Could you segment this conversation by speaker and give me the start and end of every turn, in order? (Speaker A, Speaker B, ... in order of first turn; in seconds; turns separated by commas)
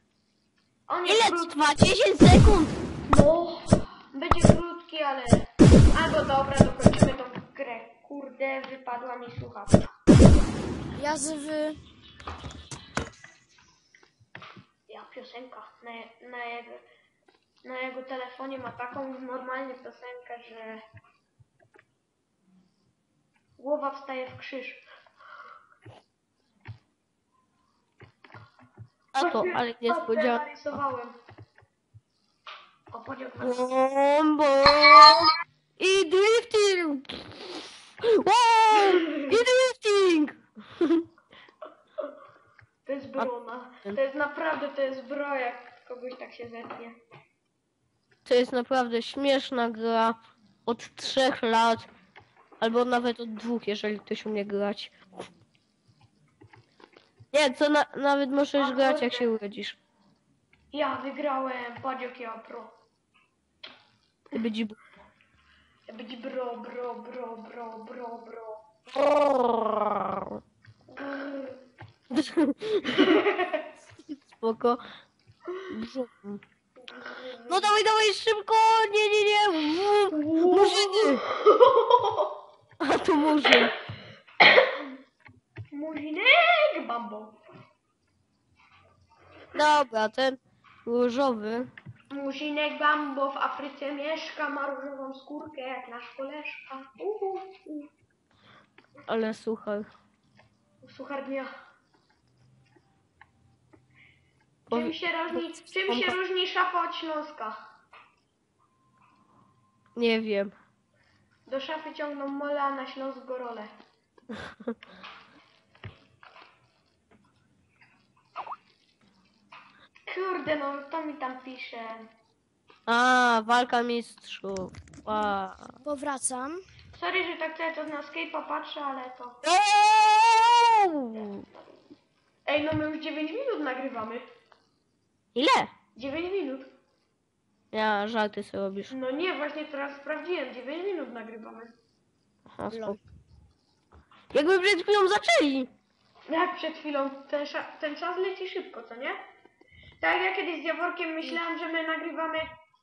Speaker A: 0.9-1.6, Speaker B: 1.0-2.8, Speaker A: 3.1-9.9, Speaker C: 10.9-11.8, Speaker A: 14.9-16.8, Speaker A: 17.6-20.8, Speaker A: 23.6-24.8, Speaker B: 29.1-30.5, Speaker A: 29.2-31.1, Speaker A: 32.9-33.6, Speaker B: 33.4-41.0, Speaker A: 38.8-39.4, Speaker A: 42.9-47.0, Speaker B: 48.2-51.9, Speaker B: 52.6-54.9, Speaker B: 57.3-59.8, Speaker A: 58.6-59.3, Speaker A: 60.7-62.7, Speaker B: 64.3-64.8, Speaker A: 65.9-68.6, Speaker B: 68.9-70.4, Speaker A: 70.9-71.6, Speaker B: 72.1-73.2, Speaker A: 73.0-73.6, Speaker B: 74.3-74.8, Speaker B: 75.7-76.4, Speaker A: 76.8-77.7, Speaker B: 77.5-81.2, Speaker A: 80.1-82.3, Speaker B: 82.8-83.7, Speaker A: 84.4-84.9, Speaker A: 85.7-87.4, Speaker B: 89.5-91.7, Speaker A: 92.1-97.9, Speaker B: 99.1-99.8, Speaker A: 100.8-101.5, Speaker B: 104.7-106.2, Speaker A: 104.7-107.6, Speaker B: 110.0-110.5, Speaker A: 111.5-113.7, Speaker A: 120.1-122.1, Speaker B: 122.9-125.7, Speaker C: 125.8-126.6, Speaker A: 126.9-129.4, Speaker B: 129.4-131.4, Speaker A: 132.4-134.2, Speaker B: 135.3-135.7, Speaker A: 135.9-136.7, Speaker B: 137.7-138.9, Speaker A: 138.9-141.7, Speaker B: 142.5-143.0, Speaker C: 142.7-143.0, Speaker B: 144.3-145.7, Speaker A: 146.3-149.2, Speaker A: 150.0-152.5